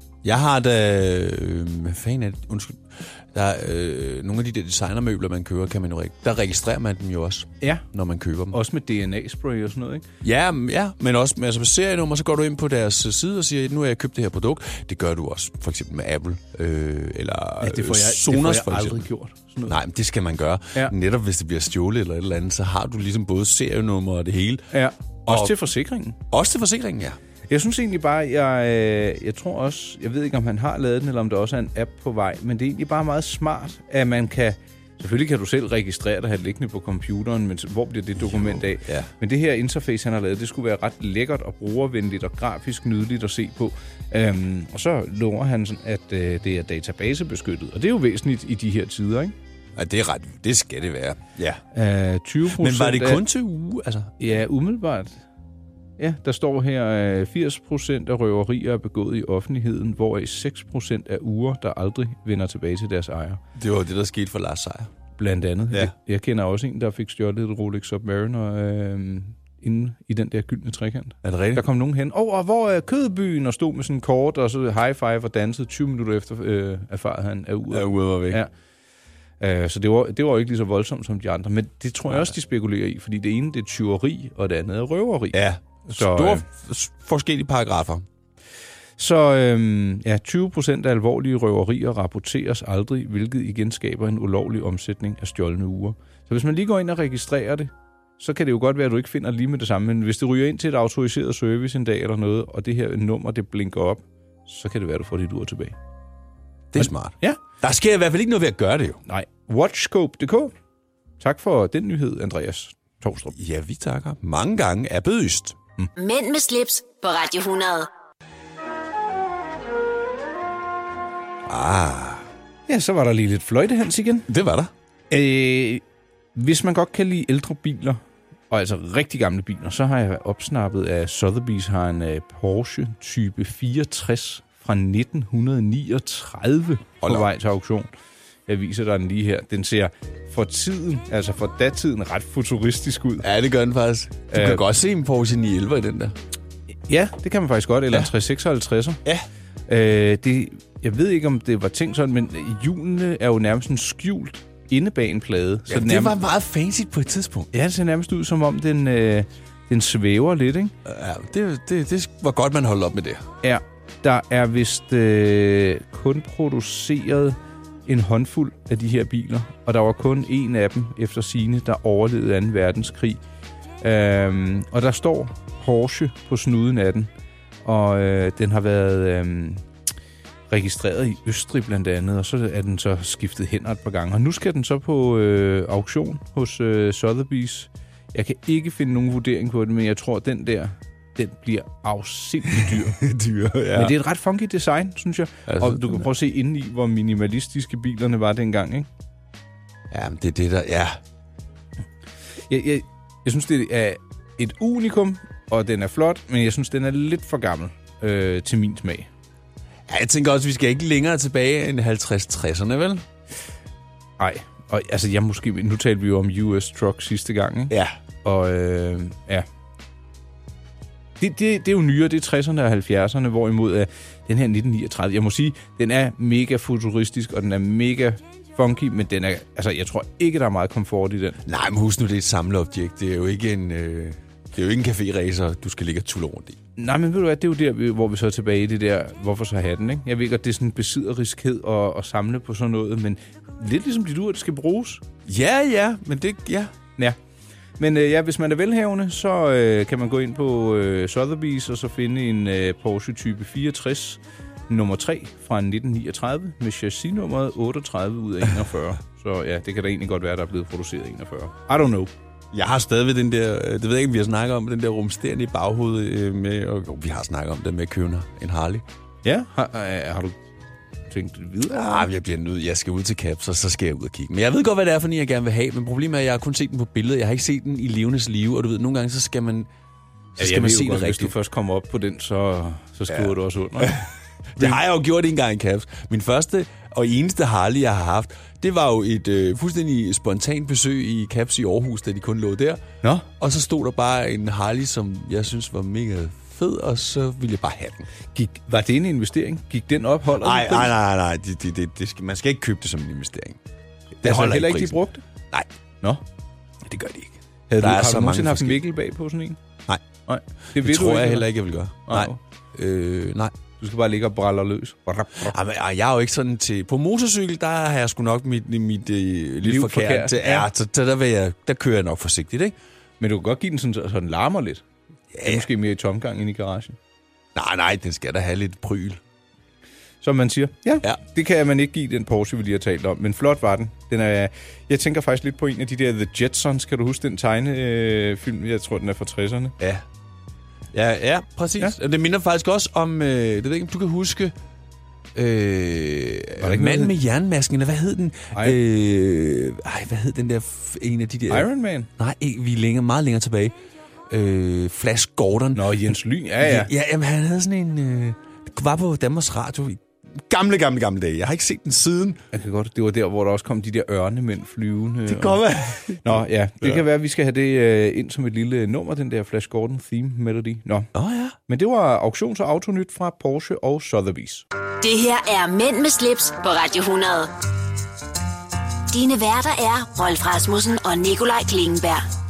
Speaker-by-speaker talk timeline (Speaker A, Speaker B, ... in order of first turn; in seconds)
Speaker A: 0.2-8.6, 10.2-19.1, 19.7-24.7, 25.3-25.6, 26.3-27.2, 38.2-39.1, 49.8-51.6, 52.5-54.1, 63.6-64.9, 71.2-71.6, 77.7-78.4, 85.3-88.0, 106.7-109.0, 113.3-115.6, 121.5-122.3, 124.3-124.7, 137.0-137.3, 143.2-146.1, 155.7-157.5, 160.8-163.2, 192.5-194.0, 195.5-196.1, 199.9-201.0, 209.9-213.0, 217.7-218.0, 231.4-236.6, 245.3-246.7, 262.5-268.9, 271.7-279.7, 280.4-281.3, 283.1-292.8, 293.4-298.1, 300.4-303.6, 304.2-305.0, 306.9-308.8, 310.7-313.6, 315.4-322.8, 325.3-325.7, 327.6-329.2, 340.9-344.5, 345.4-353.7, 354.3-362.4, 365.3-367.0, 371.1-371.6
Speaker B: 7.6-7.9, 8.5-10.1, 17.6-19.8, 24.7-26.2, 27.5-49.3, 51.7-53.2, 54.2-55.2, 56.0-63.4, 65.2-78.5, 79.4-86.4, 89.0-105.8, 106.8-107.4, 109.1-110.5, 111.2-113.3, 122.7-124.3, 125.1-125.8, 126.3-137.9, 138.5-143.3, 144.3-144.6, 146.9-149.0, 149.7-156.2, 157.5-160.8, 163.4-173.2, 173.8-177.1, 177.7-179.6, 180.5-193.0, 193.7-198.9, 202.5-209.1, 214.2-219.5, 221.2-231.4, 236.8-245.0, 247.8-262.1, 269.2-270.4, 271.1-272.1, 280.4-284.1, 298.3-300.9, 304.2-305.2, 307.7-309.6, 310.3-311.5, 312.0-312.4, 313.8-315.6, 319.6-320.7, 323.2-324.8, 325.4-327.0, 330.2-339.8, 346.6-347.1, 351.5-352.1, 355.8-356.9, 362.5-365.6, 366.2-371.1, 371.7-374.6
Speaker C: 116.0-117.9, 375.0-377.5, 379.1-382.3